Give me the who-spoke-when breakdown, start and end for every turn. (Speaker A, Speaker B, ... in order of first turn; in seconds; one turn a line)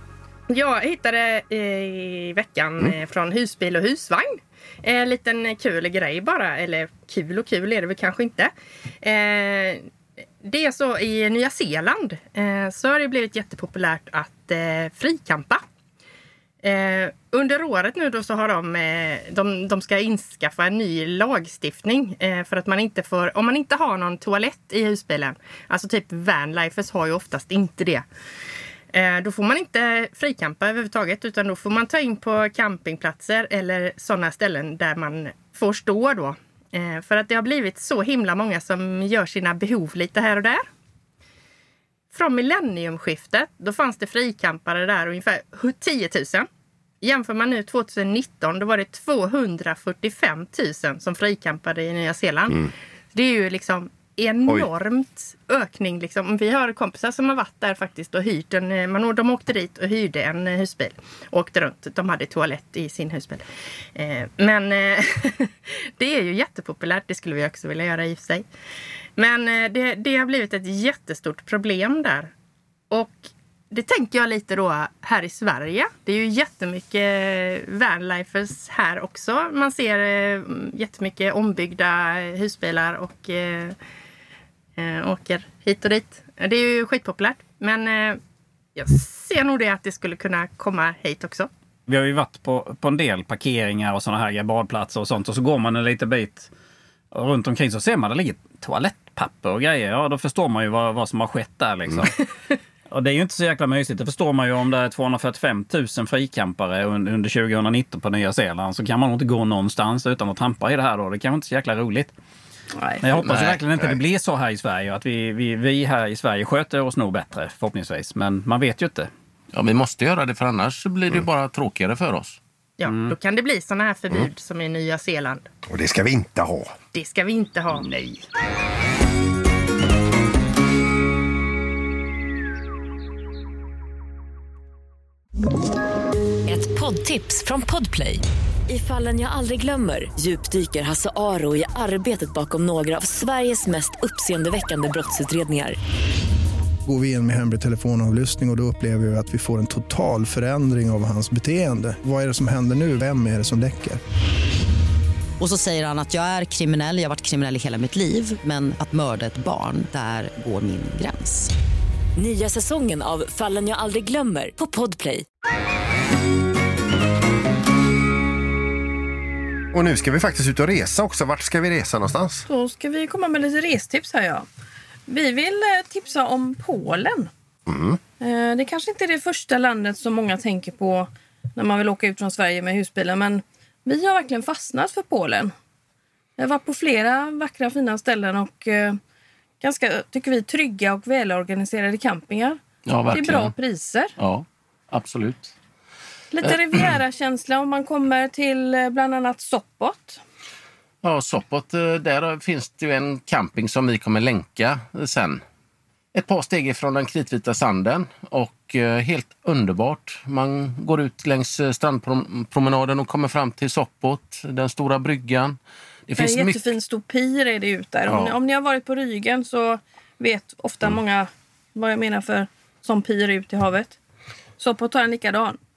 Speaker A: 0.5-8.5
Speaker A: 9.0-9.9
Speaker A: 10.4-15.6
Speaker A: 16.6-28.1
Speaker A: 28.9-40.7
Speaker A: 42.1-46.5
Speaker A: 47.0-68.5
Speaker A: 69.2-72.3
Speaker A: 72.9-83.8
Speaker A: 84.8-88.2
Speaker A: 88.8-91.5
Speaker B: 91.9-96.5
Speaker B: 97.1-102.2
Speaker B: 102.9-112.1
Speaker C: 112.8-113.0
Speaker B: 113.0-119.1
Speaker D: 119.5-122.4
Speaker A: 122.8-125.5
Speaker B: 122.9-123.2
Speaker E: 125.7-126.8
Speaker A: 126.9-127.9
Speaker B: 127.9-128.2
Speaker F: 136.5-145.8
Speaker G: 146.9-154.0
Speaker H: 155.4-161.5
Speaker F: 162.2-165.2
Speaker E: 169.7-172.4
Speaker C: 172.5-174.5
Speaker C: 175.1-177.3
Speaker E: 177.7-178.0
Speaker C: 178.2-185.5
Speaker C: 186.4-189.0
Speaker C: 189.6-192.6
Speaker D: 192.9-193.5
Speaker C: 193.1-194.1
Speaker D: 194.2-195.5
Speaker C: 196.3-200.2
Speaker D: 201.0-205.4
Speaker D: 206.1-215.6
Speaker D: 216.1-216.6
Speaker C: 216.2-224.0
Speaker D: 218.1-218.4
Speaker C: 224.6-225.6